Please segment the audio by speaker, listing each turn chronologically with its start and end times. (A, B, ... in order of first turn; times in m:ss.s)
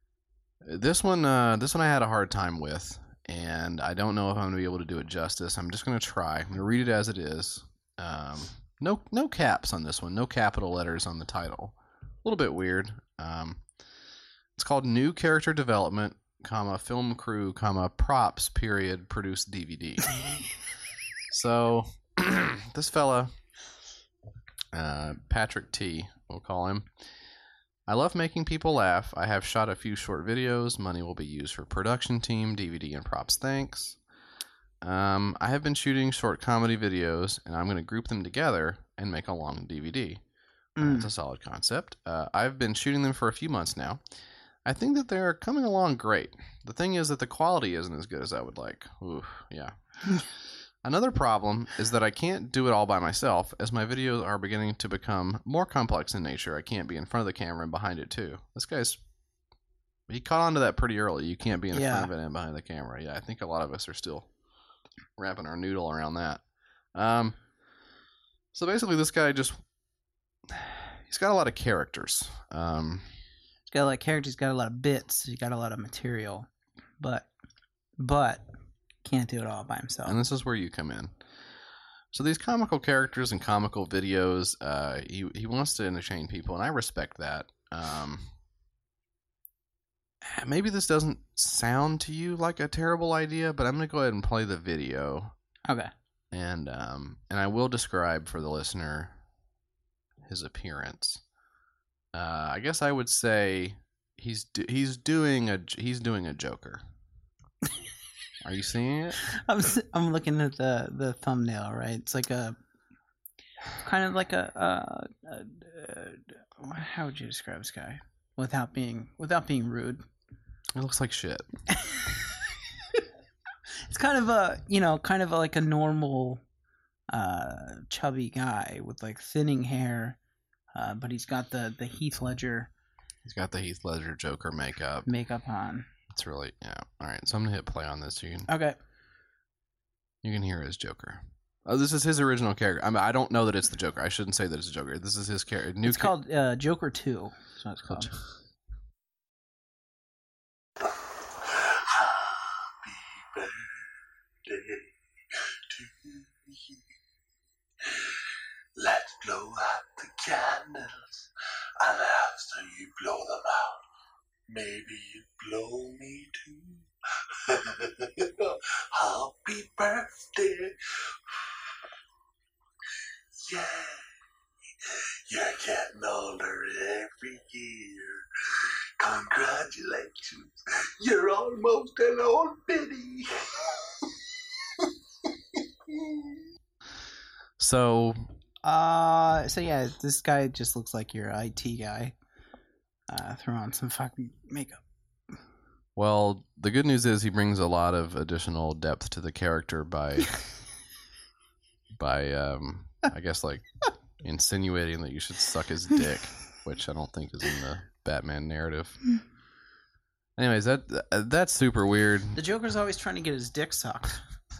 0:00.6-0:13.6 A
0:14.6-0:20.2 A
0:21.3-0:23.3 A
0:24.7-0:26.9 A
0:27.9-0:34.0 A
0:34.8-0:40.2 A
0:40.8-0:41.1 B
0:40.8-0:44.0 A
0:44.6-0:49.7 A
0:50.8-0:59.0 A
1:00.1-1:04.3 A
1:01.7-1:02.1 B
1:05.2-1:06.4 A
1:06.9-1:07.4 A
1:08.5-1:09.6 A
1:10.5-1:13.1 A
1:13.7-1:16.5 B
1:17.0-1:17.3 B
1:18.0-1:18.5 B
1:19.0-1:20.2 B
1:20.0-1:21.1 A
1:22.1-1:28.3 A
1:30.2-1:35.3 A
1:36.3-1:39.2 A
1:40.2-1:41.2 A
1:42.1-1:46.8 A
1:48.4-1:49.3 A
1:49.2-1:52.6 B
1:53.8-2:00.0 B
2:00.7-2:01.4 A
2:01.8-2:02.1 B
2:03.8-2:06.4 B
2:07.1-2:10.2 B
2:10.7-2:12.7 B
2:13.2-2:15.1 A
2:15.0-2:15.9 B
2:16.1-2:18.5 A
2:18.5-2:18.8 B
2:20.2-2:26.1 A
2:25.8-2:28.1 B
2:30.8-2:33.8 C
2:34.5-2:36.8 C
2:37.8-2:38.2 C
2:38.8-2:41.3 C
2:41.8-2:43.8 C
2:44.5-2:46.8 C
2:47.4-2:50.7 C
2:53.4-2:54.0 C
2:54.8-3:03.8 C
3:05.6-3:06.3 C
3:07.6-3:08.3 A
3:08.6-3:12.1 B
3:13.1-3:14.8 B
3:16.0-3:20.4 A
3:21.9-3:23.7 A
3:24.2-3:29.0 A
3:30.4-3:32.4 A
3:32.3-3:34.2 B